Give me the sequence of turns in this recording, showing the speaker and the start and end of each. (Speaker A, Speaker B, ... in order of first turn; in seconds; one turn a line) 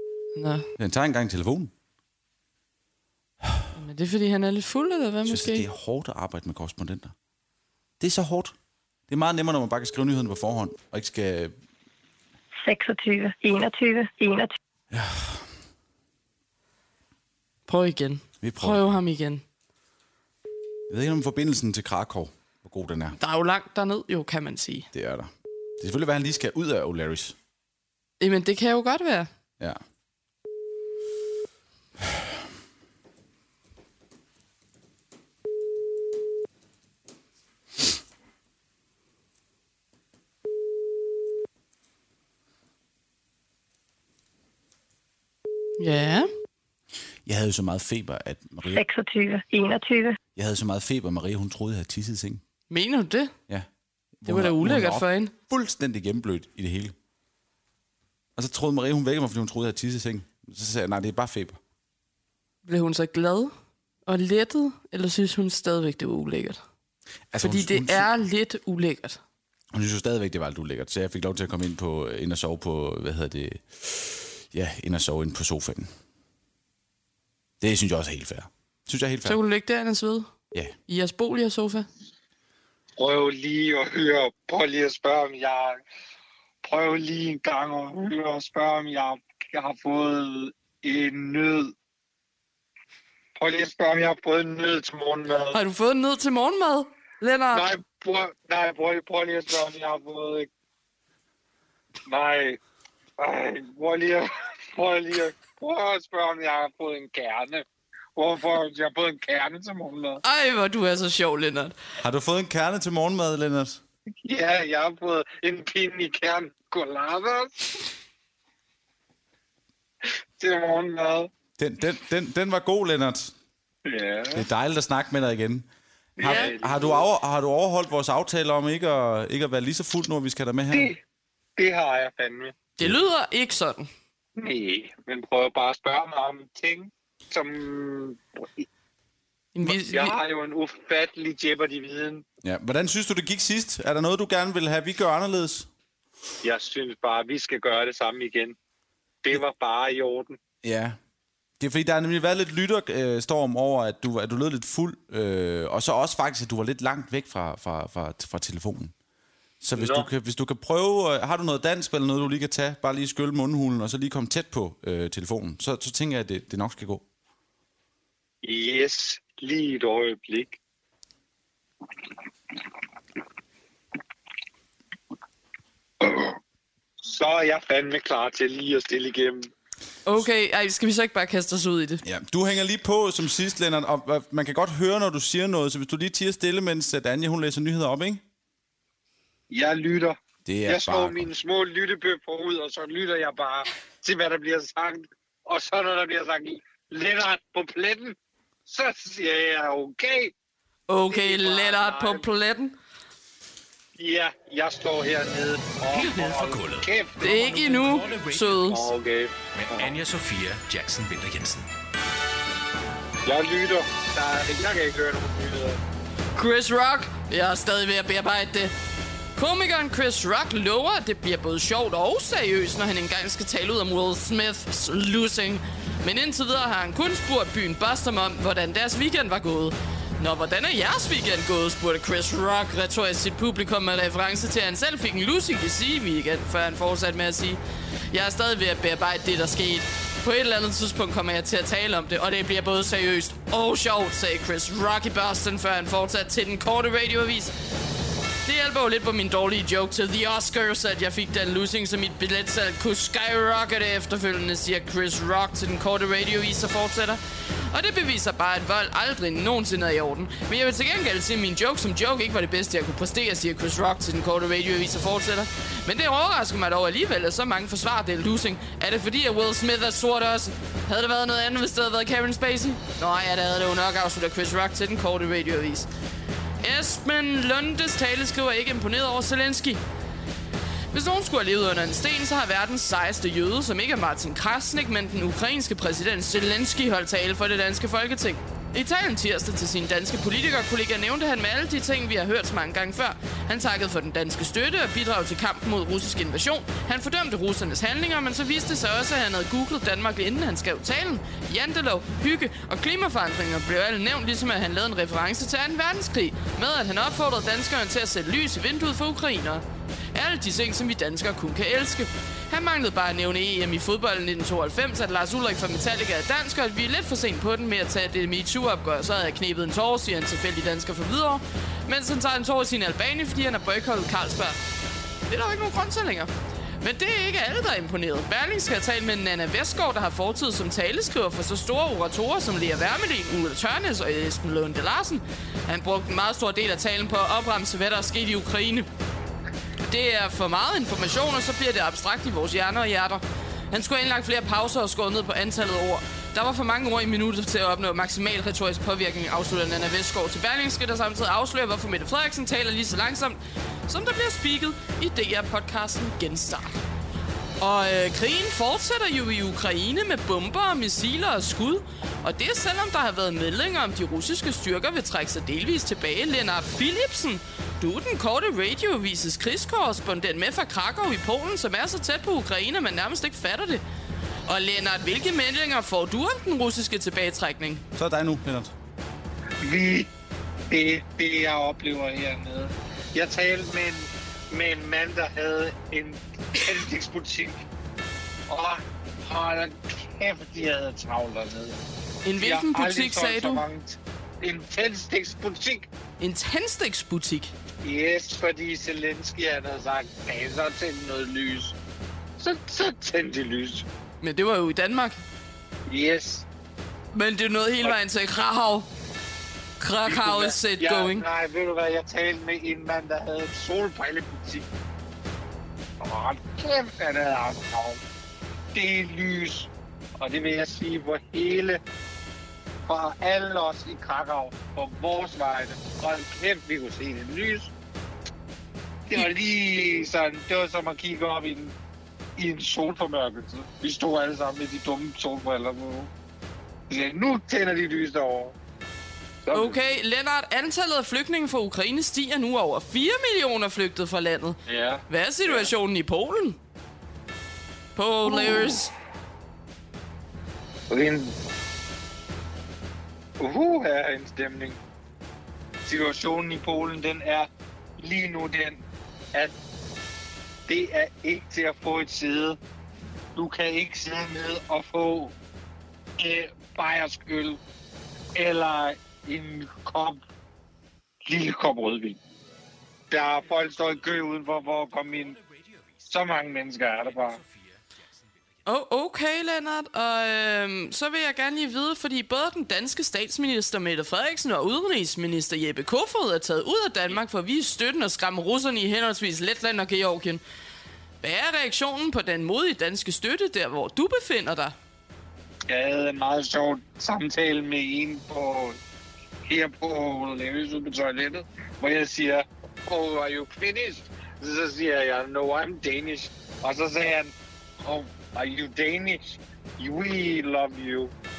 Speaker A: 0.3-0.7
Speaker B: 0.8-1.7
Speaker A: 3.7-5.7
Speaker B: 5.2-7.1
Speaker B: 8.0-8.5
Speaker B: 9.1-11.5
Speaker C: 12.6-14.6
Speaker B: 14.9-15.4
Speaker A: 17.7-19.4
Speaker B: 18.4-18.9
Speaker B: 20.9-23.2
Speaker A: 23.2-24.9
Speaker B: 24.9-27.3
Speaker A: 28.2-29.3
Speaker A: 45.8-46.3
Speaker B: 47.2-48.8
Speaker C: 48.7-50.2
Speaker B: 50.3-52.4
Speaker A: 52.7-53.3
Speaker B: 54.2-56.9
Speaker A: 54.2-55.3
Speaker B: 58.4-61.6
Speaker A: 62.6-63.5
Speaker A: 64.0-66.6
Speaker B: 67.3-68.1
Speaker A: 67.4-69.2
Speaker B: 69.7-75.9
Speaker B: 77.6-79.4
Speaker A: 79.2-80.3
Speaker A: 80.9-81.9
Speaker D: 83.0-85.8
Speaker D: 86.6-91.7
Speaker D: 93.3-95.6
Speaker A: 95.5-97.7
Speaker D: 97.5-100.5
Speaker D: 102.1-102.6
Speaker D: 103.2-107.6
Speaker D: 108.2-110.2
Speaker A: 110.2-111.8
Speaker B: 112.0-113.8
Speaker D: 114.2-117.8
Speaker D: 120.4-121.3
Speaker B: 121.6-123.3
Speaker D: 123.8-124.5
Speaker B: 124.3-125.7
Speaker D: 126.2-127.1
Speaker B: 126.2-130.9
Speaker A: 126.2-126.5
Speaker D: 130.7-131.0
Speaker D: 131.6-132.5
Speaker A: 132.8-133.9
Speaker D: 134.3-138.6
Speaker A: 139.5-140.2
Speaker D: 139.7-142.3
Speaker B: 142.4-145.7
Speaker D: 146.4-148.6
Speaker D: 149.2-150.4
Speaker B: 150.6-151.0
Speaker B: 151.6-158.9
Speaker B: 159.6-167.0
Speaker D: 159.8-160.1
Speaker D: 168.4-170.6
Speaker D: 176.0-176.3
Speaker D: 177.0-179.5
Speaker A: 180.1-182.0
Speaker B: 182.0-188.2
Speaker D: 189.5-200.3
Speaker B: 190.4-191.3
Speaker A: 200.9-202.8
Speaker D: 201.1-202.2
Speaker D: 204.0-207.9
Speaker E: 205.9-208.8
Speaker A: 207.2-208.9
Speaker D: 208.7-209.9
Speaker E: 209.5-211.7
Speaker D: 213.2-215.8
Speaker A: 216.3-218.7
Speaker A: 219.3-247.5
Speaker A: 248.4-275.9
Speaker A: 276.6-279.8
Speaker A: 280.9-324.6
Speaker A: 325.3-338.9
Speaker A: 339.9-356.8
Speaker A: 357.6-373.8
Speaker A: 374.5-377.8
Speaker B: 377.9-378.7
Speaker D: 379.6-380.1
Speaker D: 380.7-387.6
Speaker D: 388.5-391.8
Speaker A: 392.2-393.6
Speaker D: 392.4-395.9
Speaker A: 396.2-397.5
Speaker D: 397.8-401.7
Speaker D: 402.4-403.8
Speaker A: 404.2-405.2
Speaker D: 405.9-406.4
Speaker A: 407.1-408.9
Speaker A: 409.8-411.2
Speaker D: 410.0-414.6
Speaker D: 416.0-418.0
Speaker D: 418.7-421.8
Speaker D: 422.9-427.7
Speaker D: 429.1-431.7
Speaker D: 432.4-436.1
Speaker D: 436.9-438.5
Speaker D: 439.4-439.8
Speaker A: 439.5-446.6
Speaker D: 444.7-445.7
Speaker A: 447.9-448.9
Speaker D: 448.2-448.8
Speaker D: 450.9-451.3
Speaker D: 453.4-454.8
Speaker D: 455.8-459.5
Speaker D: 460.7-462.6
Speaker D: 463.4-465.3
Speaker D: 466.2-467.6
Speaker D: 468.3-470.2
Speaker D: 471.2-472.2
Speaker D: 473.1-475.4
Speaker E: 473.3-474.2
Speaker E: 474.8-476.1
Speaker D: 476.1-477.4
Speaker E: 477.0-478.7
Speaker A: 478.6-490.4
Speaker A: 491.2-494.7
Speaker D: 495.7-498.8
Speaker D: 499.4-511.1